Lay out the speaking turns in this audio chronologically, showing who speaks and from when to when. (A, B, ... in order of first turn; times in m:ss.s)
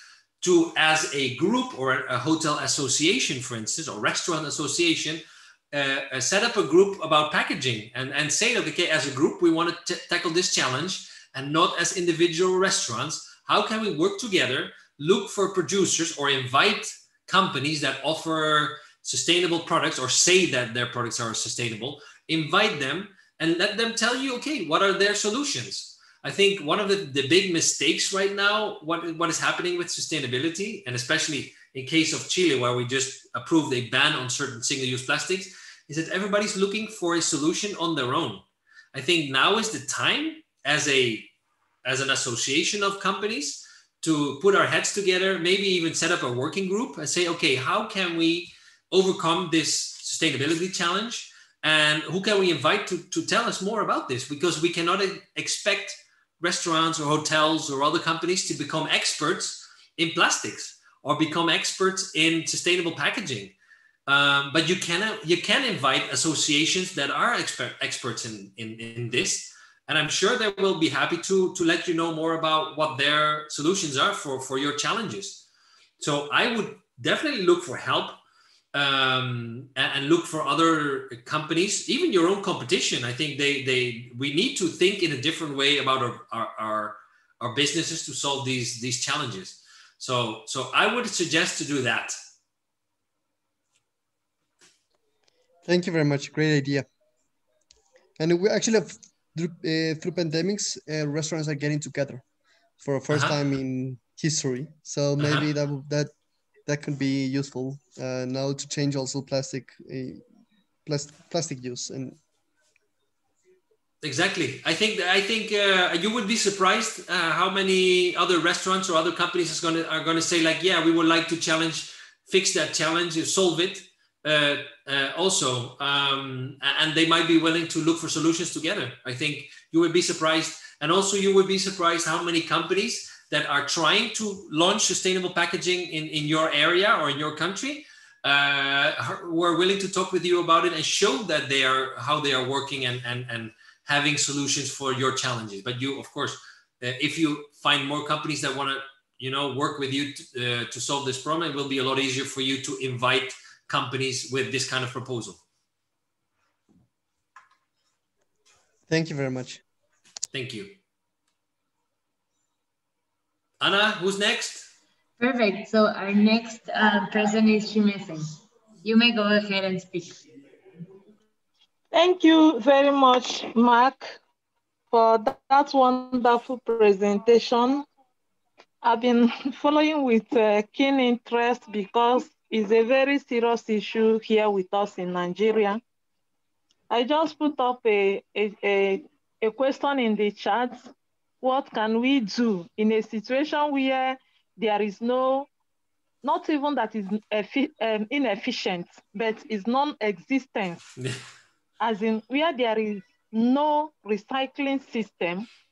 0:00.4-0:41.3 A
0:41.8-1:03.5 A
1:04.1-1:15.4 A
1:16.0-1:18.2 A
1:18.7-1:32.2 A
1:35.6-1:36.8 B
1:38.2-1:42.2 B
1:42.8-1:46.1 B
1:43.1-1:43.4 A
1:45.2-1:45.5 A
1:46.6-1:50.2 B
1:50.8-1:52.2 B
1:54.0-2:35.4 A
2:38.9-2:39.6 B
2:40.3-2:40.8 A
2:43.6-2:44.7 A
2:45.2-2:48.3 C
2:48.8-2:50.2 C
2:51.9-2:54.2 D
2:54.9-2:57.8 D
2:58.8-3:05.8 D
3:06.9-3:15.5 D
3:16.2-3:20.9 D
3:21.8-3:25.5 D